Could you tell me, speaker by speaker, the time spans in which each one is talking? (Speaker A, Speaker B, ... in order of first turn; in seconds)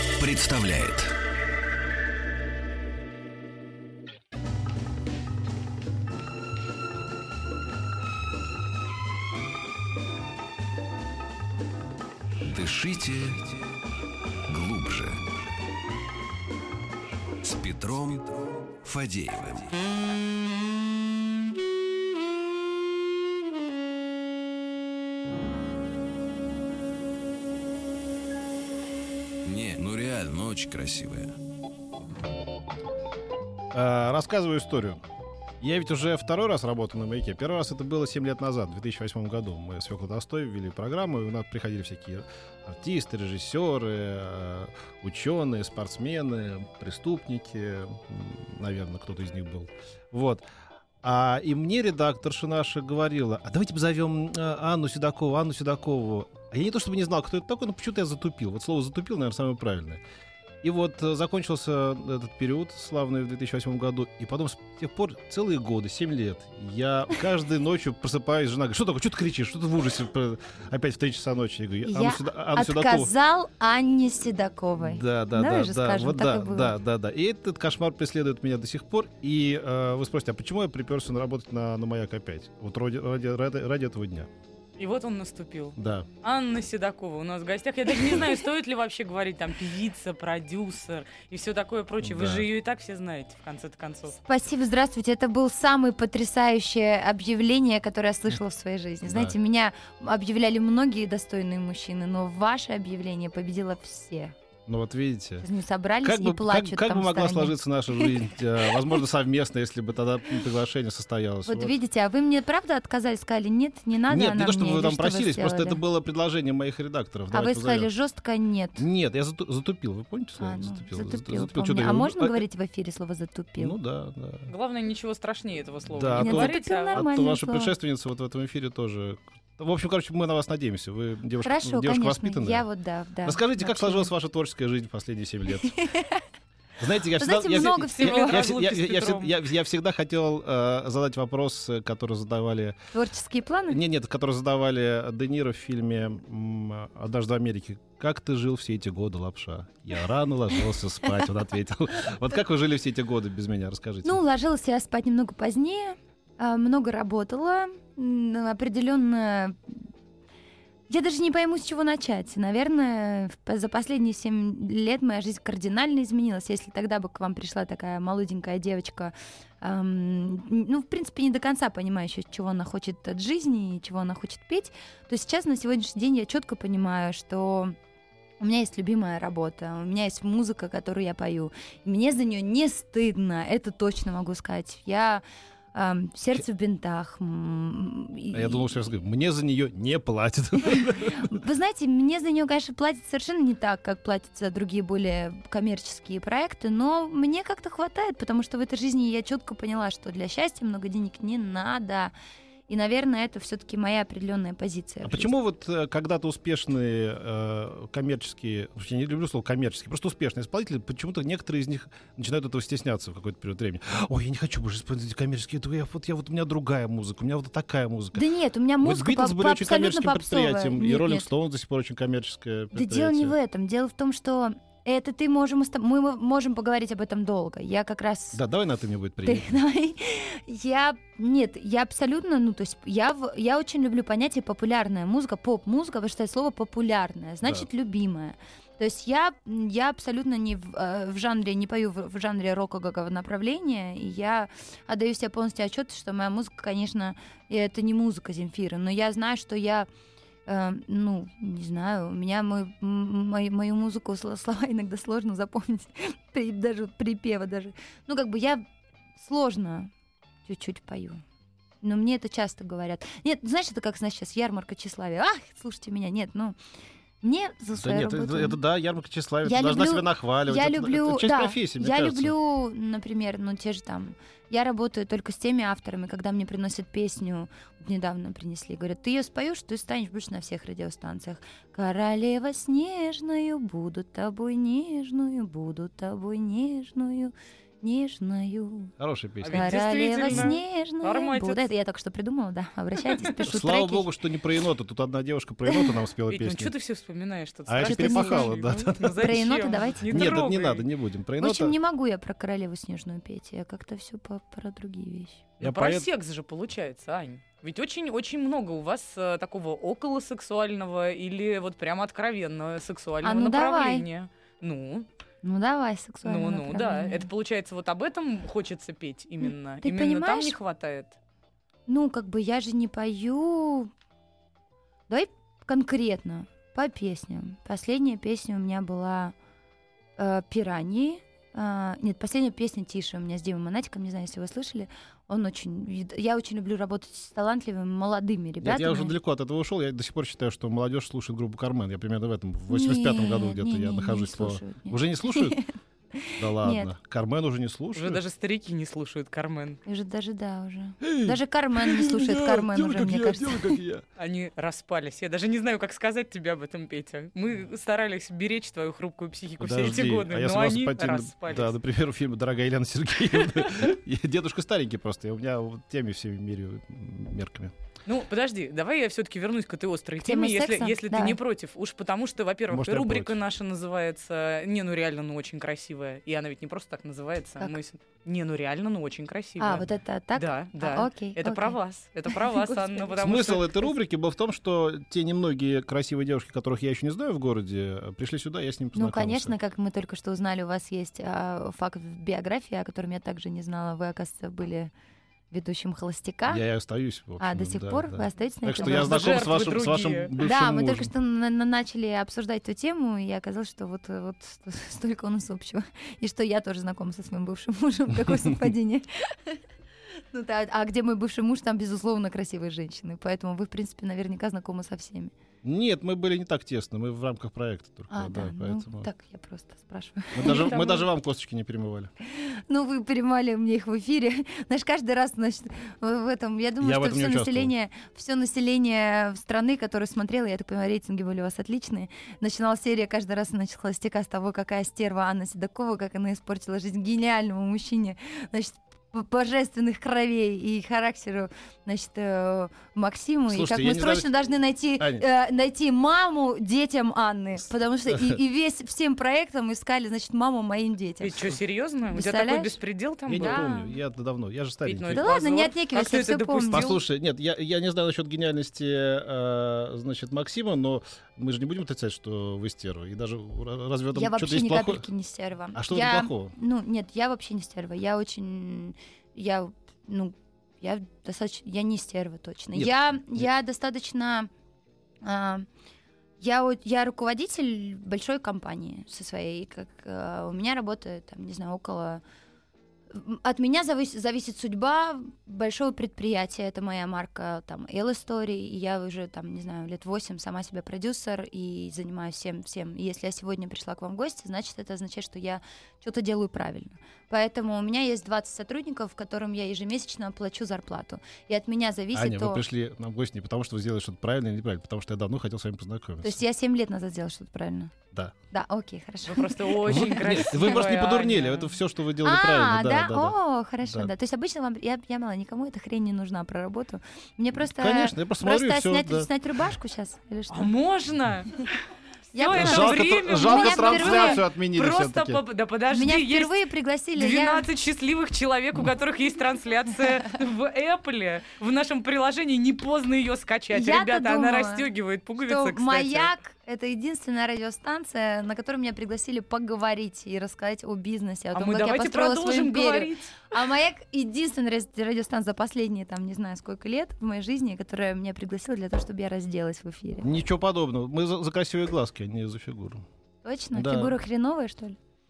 Speaker A: 0.1-1.1, 12.4-13.6, 14.5-15.4, 17.4-19.8, 29.4-31.4
Speaker B: 33.7-35.0, 35.6-50.5, 51.0-60.0, 60.6-73.1, 74.8-84.3, 85.8-86.1, 92.0-92.5, 99.1-99.3, 104.7-105.5, 106.0-111.7, 114.1-117.9, 118.8-122.4, 123.6-124.5, 125.9-132.7, 133.2-135.8, 136.8-142.8, 143.7-154.2, 188.3-191.4, 205.0-218.2, 218.8-223.3, 228.3-229.6, 267.8-272.3, 289.0-290.5, 293.5-296.7, 297.7-299.4, 300.1-301.8, 305.6-306.1, 338.6-345.6, 346.4-348.2, 351.0-354.1, 359.6-367.8, 372.7-373.4, 383.2-389.5, 396.5-401.1, 415.6-419.1, 420.3-422.1, 426.8-427.7, 443.5-444.3, 445.0-445.2, 448.1-448.4, 453.3-455.2, 456.7-465.1, 465.7-466.5, 472.7-473.5, 502.1-506.4, 509.9-514.1, 517.6-519.3, 522.5-525.4, 550.2-553.0, 553.7-554.1
Speaker C: 71.8-76.8, 94.2-104.3, 105.4-108.1, 111.5-115.8, 117.3-118.9, 120.4-123.8, 126.2-127.7, 131.4-134.1, 135.6-136.2, 137.2-138.4, 142.9-143.8, 154.0-159.9, 160.9-177.8, 178.4-185.2, 185.7-188.7, 190.7-202.1, 202.7-205.3, 218.1-221.3, 222.8-228.4, 229.2-249.9, 250.5-258.6, 259.2-259.9, 260.4-261.2, 261.8-266.6, 267.2-268.6, 269.4-288.9, 289.5-294.1, 297.8-298.5, 299.1-300.2, 301.4-305.5, 313.2-314.1, 315.4-317.3, 319.5-320.6, 321.9-323.9, 325.1-329.4, 330.2-339.1, 342.7-346.9, 349.9-353.8, 370.2-371.4, 379.6-381.8, 382.3-383.2, 388.9-394.9, 395.5-396.6, 397.4-399.2, 400.4-409.6, 410.3-415.3, 418.1-420.9, 422.3-451.4, 452.1-452.8, 453.4-454.0, 455.1-457.0, 464.1-474.5, 475.2-475.7, 476.4-482.2, 483.1-502.6, 506.2-507.9, 508.5-510.7, 512.2-520.7, 522.3-524.4, 525.9-527.7, 533.7-534.9, 535.4-550.3, 553.4-555.0
Speaker D: 84.8-94.2, 124.5-127.0, 138.0-139.4, 289.4-291.6, 296.3-300.9, 305.6-315.1, 316.2-321.2, 347.9-349.8, 354.2-361.7, 368.1-383.9, 398.7-400.3, 420.4-421.1, 451.2-453.7, 454.9-457.0, 509.3-511.8, 520.5-521.7, 522.4-526.6, 527.2-536.3, 541.5-543.5